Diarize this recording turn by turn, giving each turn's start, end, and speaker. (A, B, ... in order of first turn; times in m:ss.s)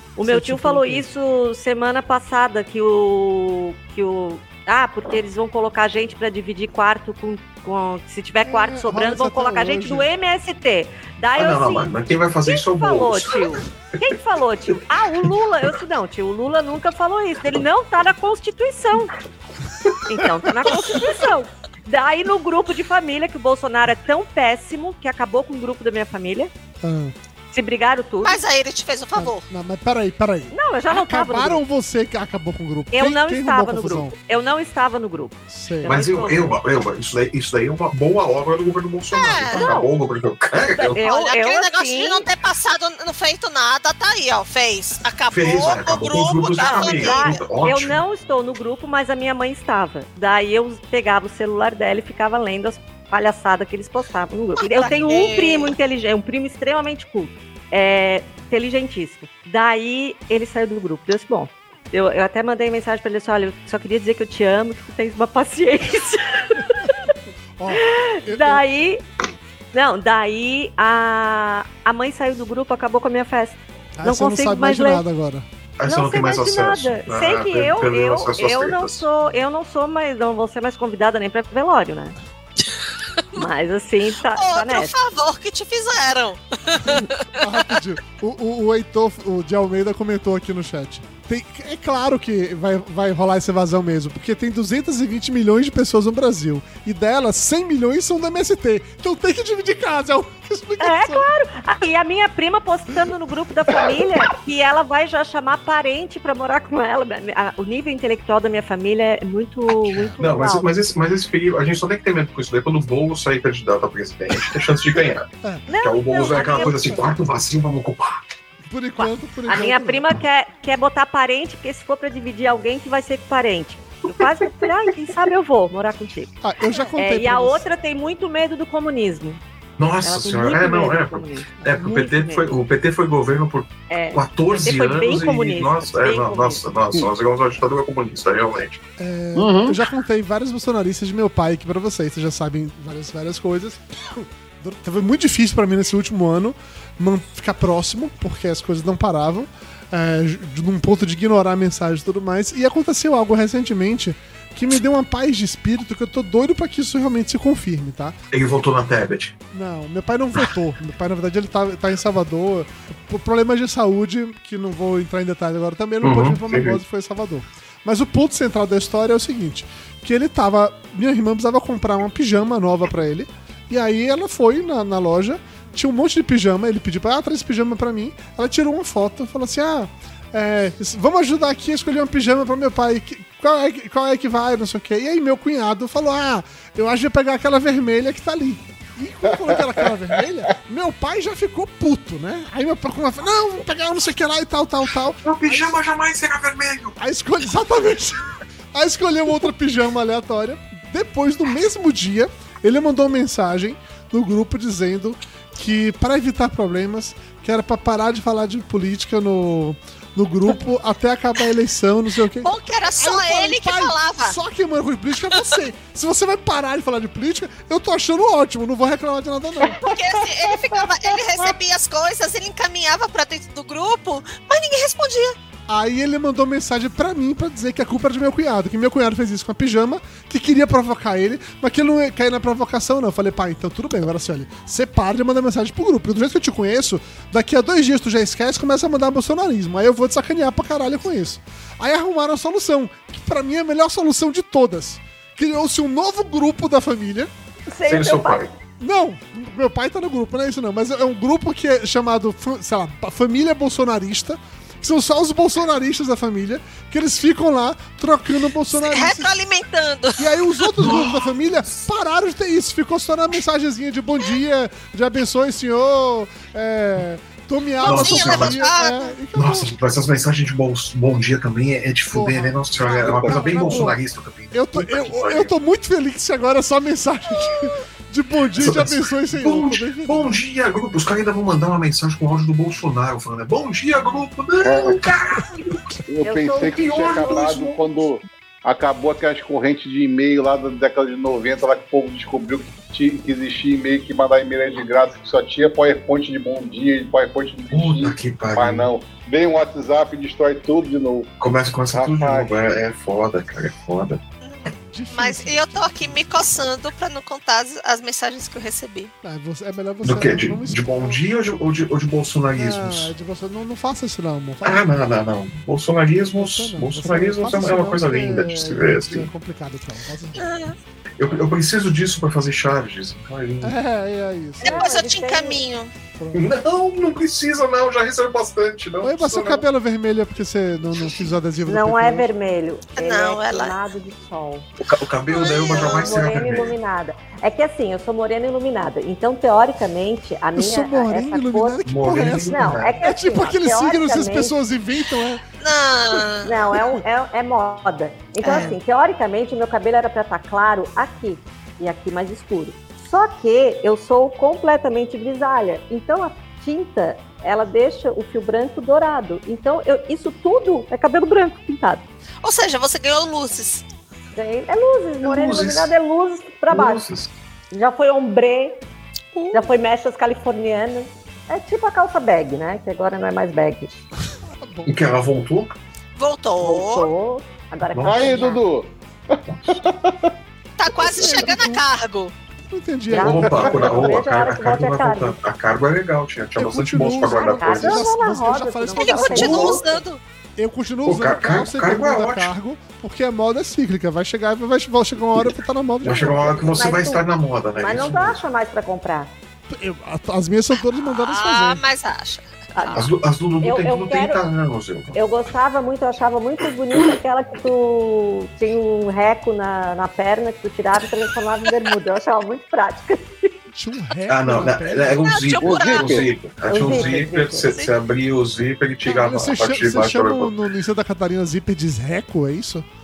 0:00.2-0:11.9 A
0:00.2-0:01.1 B
0:08.4-0:10.1 B
0:11.4-0:14.1 C
0:12.5-0:19.1 A
0:20.1-0:26.5 A
0:26.8-0:27.1 B
0:27.5-0:28.4 A
0:28.2-0:29.4 D
0:29.2-0:34.2 B
0:30.5-0:31.6 A
0:32.9-0:36.6 A
0:35.5-0:36.0 B
0:35.8-0:41.0 C
0:39.1-0:39.8 D
0:39.5-0:39.9 A
0:40.8-0:42.3 A
0:41.0-0:47.4 D
0:45.3-0:48.0 C
0:46.6-1:07.1 A
0:54.6-0:55.8 D
1:06.6-1:06.9 B
1:07.6-1:08.6 B
1:07.8-1:09.0 A
1:09.7-1:15.0 A
1:14.0-1:15.5 B
1:15.8-1:19.1 C
1:15.8-1:22.2 A
1:23.4-1:24.9 A
1:24.3-1:27.4 D
1:26.8-1:41.3 B
1:40.8-1:50.7 A
1:50.2-1:55.3 C
1:55.4-1:55.7 B
1:55.7-1:57.0 A
1:55.8-1:58.2 C
1:58.7-2:00.1 B
1:59.0-2:06.3 A
2:06.4-2:07.6 B
2:07.0-2:09.4 A
2:09.8-2:18.8 C
2:10.0-2:12.5 A
2:11.6-2:11.9 B
2:13.9-2:16.6 A
2:19.0-2:38.2 B
2:19.4-2:19.8 E
2:38.3-2:39.4 C
2:39.5-3:15.7 B
2:46.0-2:46.8 C
3:09.4-3:09.8 E
3:15.2-3:17.0 C
3:17.0-3:39.9 B
3:32.4-3:34.4 D
3:39.9-3:45.4 D
3:45.7-4:07.3 B
4:07.7-4:08.5 A
4:07.9-4:08.5 C
4:08.8-4:19.3 B
4:18.7-4:20.7 D
4:20.2-4:29.7 B
4:20.8-4:21.3 C
4:27.8-4:28.6 C
4:27.8-4:29.2 D
4:29.4-4:35.5 C
4:32.1-4:34.0 B
4:33.0-4:33.5 E
4:34.5-4:40.4 B
4:38.6-4:45.9 C
4:44.6-4:45.0 E
4:46.1-5:01.3 E
4:46.2-4:47.6 A
4:46.6-4:47.8 C
4:57.7-4:58.9 C
5:01.4-5:04.2 C
5:01.9-5:02.7 E
5:04.4-5:09.1 D
5:04.9-5:06.3 B
5:09.2-5:11.2 B
5:10.0-5:13.1 C
5:12.5-5:14.9 B
5:14.6-5:19.3 C
5:16.4-5:20.6 B
5:20.4-5:20.8 D
5:21.2-5:23.8 C
5:23.6-5:24.9 B
5:24.6-5:25.6 A
5:24.6-5:25.9 D
5:26.2-5:26.5 B
5:26.3-5:29.7 C
5:29.0-5:32.3 B
5:31.7-5:34.7 A
5:33.0-5:33.8 D
5:34.8-5:36.8 C
5:35.3-5:36.2 D
5:35.6-5:44.6 A
5:40.6-5:45.4 B
5:41.9-5:43.0 C
5:45.6-5:46.7 D
5:46.4-6:02.0 A
5:48.4-5:48.8 D
6:02.4-6:03.8 D
6:04.4-6:07.0 A
6:05.2-6:05.9 C
6:06.7-6:07.3 C
6:07.7-6:08.8 A
6:09.3-6:09.7 D
6:09.5-6:13.9 A
6:14.6-6:14.9 B
6:14.9-6:15.8 C
6:16.2-6:17.1 D
6:16.6-6:18.6 A
6:17.9-6:18.4 C
6:18.0-6:20.3 E
6:20.8-6:22.3 D
6:21.0-6:21.8 B
6:22.7-6:24.1 B
6:23.1-6:25.4 A
6:23.1-6:28.1 C
6:26.6-6:29.8 B
6:27.3-6:30.0 A
6:28.9-6:30.2 D
6:29.4-6:29.8 C
6:30.6-6:36.8 B
6:31.1-6:32.5 C
6:36.0-6:38.4 C
6:36.8-6:37.2 A
6:37.8-6:39.3 A
6:39.7-6:41.8 B
6:41.0-6:43.1 D
6:42.8-6:43.1 A
6:42.9-6:45.2 C
6:43.6-6:44.4 A
6:45.2-6:53.6 A
6:53.7-6:55.3 B
6:54.3-7:00.5 C
6:55.2-6:56.3 D
6:55.6-6:56.3 E
6:56.7-6:57.7 A
6:57.7-6:58.0 D
6:59.0-7:02.8 B